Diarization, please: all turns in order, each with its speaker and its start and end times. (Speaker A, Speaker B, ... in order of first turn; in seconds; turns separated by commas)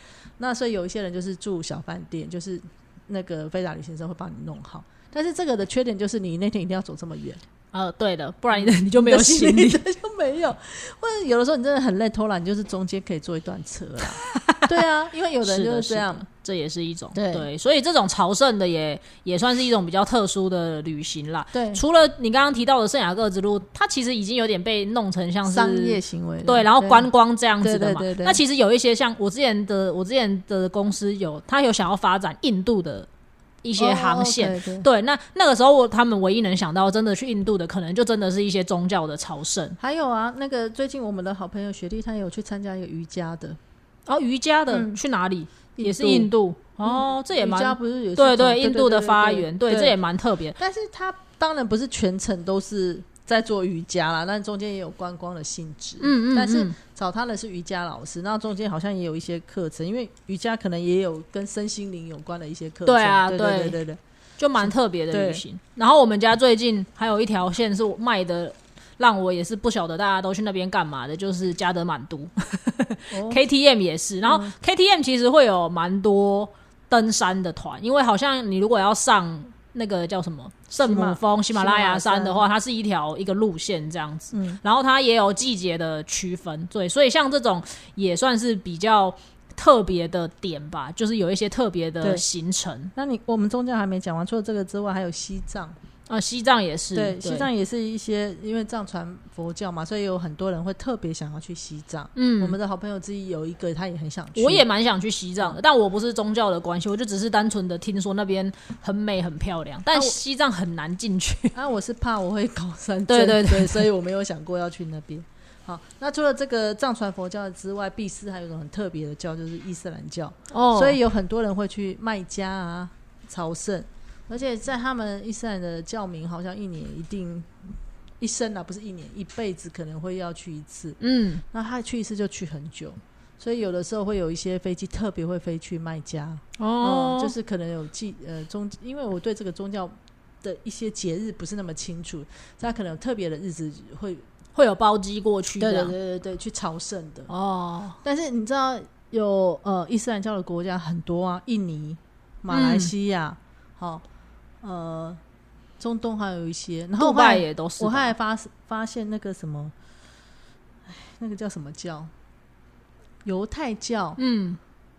Speaker A: 0.4-7.4, Speaker B: 7.7-9.8, Speaker A: 8.5-16.2, Speaker B: 14.3-14.7, Speaker B: 15.4-33.1, Speaker A: 17.1-17.5, Speaker A: 21.5-21.8, Speaker A: 25.4-27.1, Speaker A: 27.6-28.4, Speaker B: 33.6-39.8, Speaker A: 33.8-34.9, Speaker A: 39.8-43.6, Speaker B: 44.1-50.6, Speaker A: 44.7-45.0, Speaker A: 45.8-46.3, Speaker A: 46.8-50.0, Speaker A: 50.6-64.0, Speaker B: 56.0-56.8, Speaker B: 62.9-63.8, Speaker B: 64.4-92.9, Speaker A: 64.6-65.4, Speaker A: 73.1-73.4, Speaker A: 74.2-74.5, Speaker A: 80.8-82.4, Speaker A: 84.3-84.6, Speaker A: 92.9-95.8, Speaker B: 96.1-97.5, Speaker A: 96.9-104.7, Speaker B: 102.1-102.6, Speaker B: 104.3-111.5, Speaker A: 111.5-127.7, Speaker B: 113.1-113.9, Speaker B: 120.5-121.0, Speaker A: 128.2-131.0, Speaker B: 131.0-131.4, Speaker A: 131.5-144.2, Speaker B: 136.6-137.3, Speaker B: 144.5-145.9, Speaker A: 145.6-147.3, Speaker B: 147.3-148.0, Speaker A: 148.0-154.0, Speaker B: 152.5-152.9, Speaker A: 154.6-155.2, Speaker A: 155.8-159.7, Speaker B: 157.0-158.1, Speaker A: 160.8-162.1, Speaker A: 163.2-164.2, Speaker B: 164.2-164.6